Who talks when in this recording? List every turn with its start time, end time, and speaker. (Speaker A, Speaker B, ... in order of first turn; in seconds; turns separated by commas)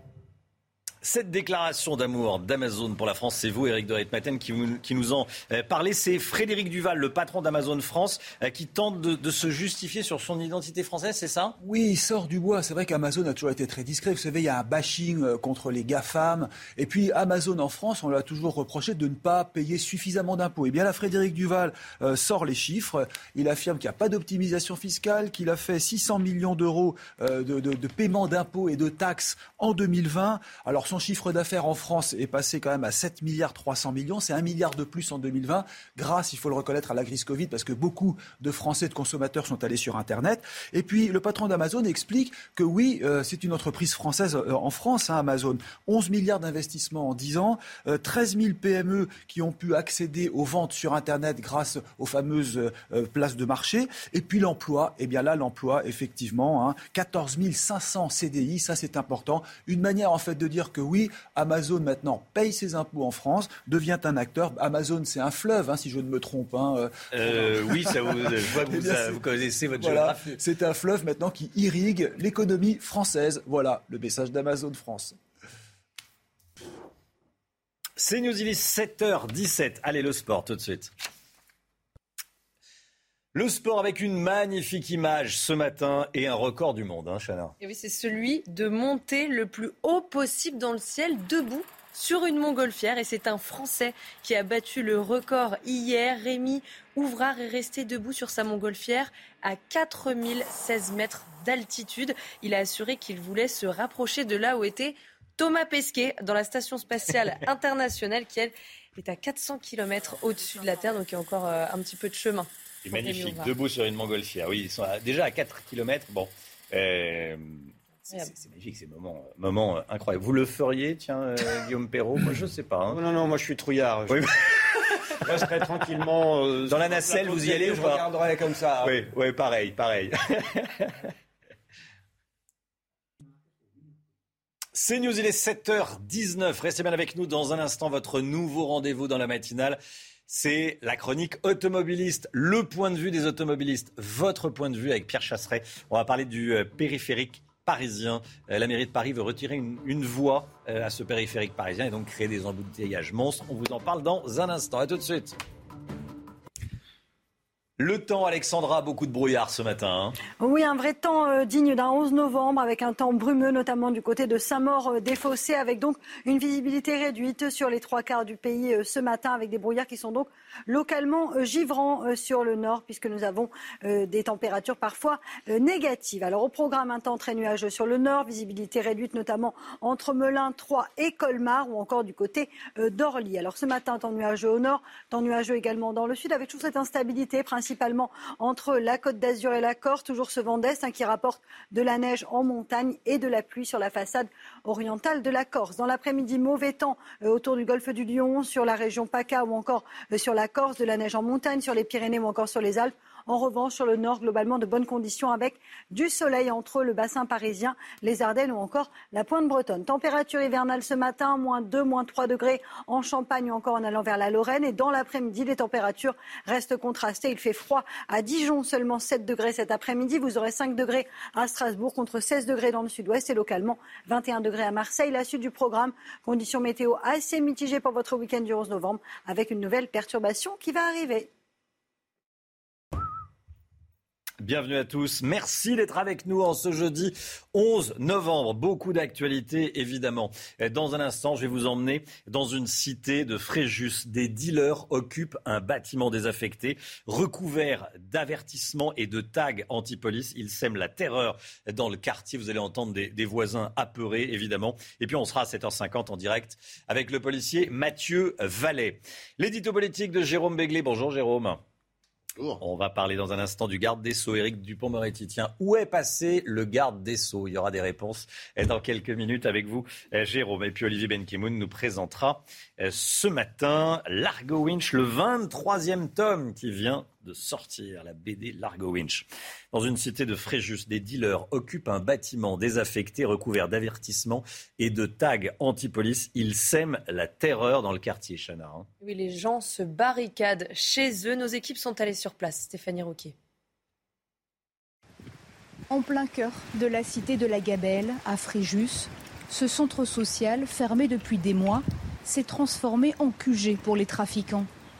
Speaker A: 1.0-11.6, Speaker B: 11.6-69.2, Speaker A: 67.1-70.4, Speaker B: 69.8-75.2, Speaker A: 78.0-80.9, Speaker A: 83.3-87.5, Speaker C: 87.6-113.5, Speaker A: 112.8-123.0, Speaker D: 122.9-124.3, Speaker A: 124.1-124.5, Speaker D: 125.2-129.0, Speaker A: 125.6-126.0, Speaker A: 126.6-128.1, Speaker A: 128.8-130.9, Speaker A: 134.7-155.4, Speaker A: 157.8-160.2, Speaker E: 160.4-231.3, Speaker A: 234.4-261.6, Speaker A: 262.6-288.9, Speaker C: 289.0-293.4, Speaker F: 295.9-304.7